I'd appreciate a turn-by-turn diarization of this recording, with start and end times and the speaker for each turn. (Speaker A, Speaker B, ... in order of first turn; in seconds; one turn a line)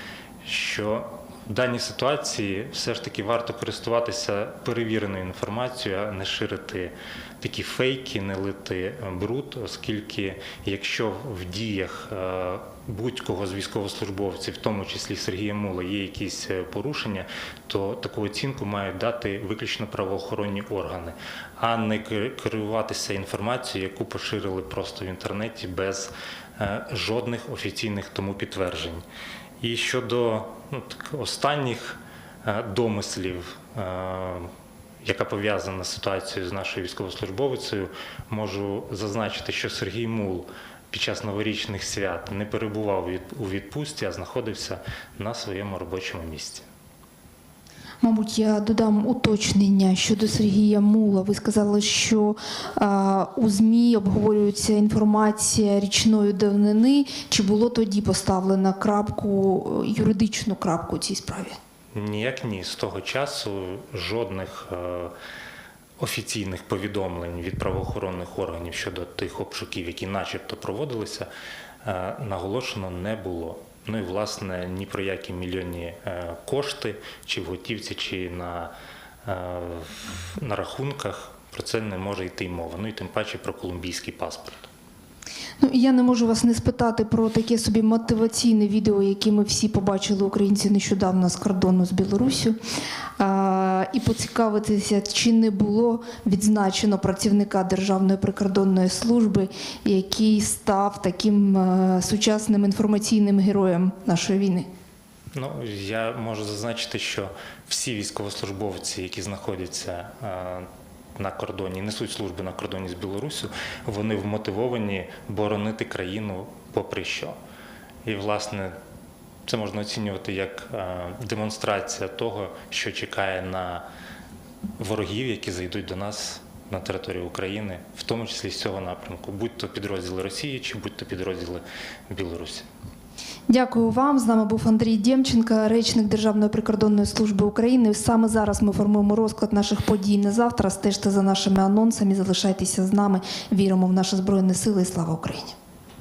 Speaker A: 0.4-29.1
Speaker A: 29.6-34.5
Speaker A: 35.0-46.7
Speaker B: 48.0-61.6
Speaker A: 61.9-65.1
Speaker A: 66.0-71.3
Speaker A: 71.8-78.7
Speaker A: 79.2-84.7
Speaker B: 85.6-92.6
Speaker B: 93.2-104.7
Speaker A: 105.3-117.4
Speaker A: 118.0-118.8
Speaker A: 119.5-123.8
Speaker A: 124.8-132.7
Speaker B: 133.5-145.6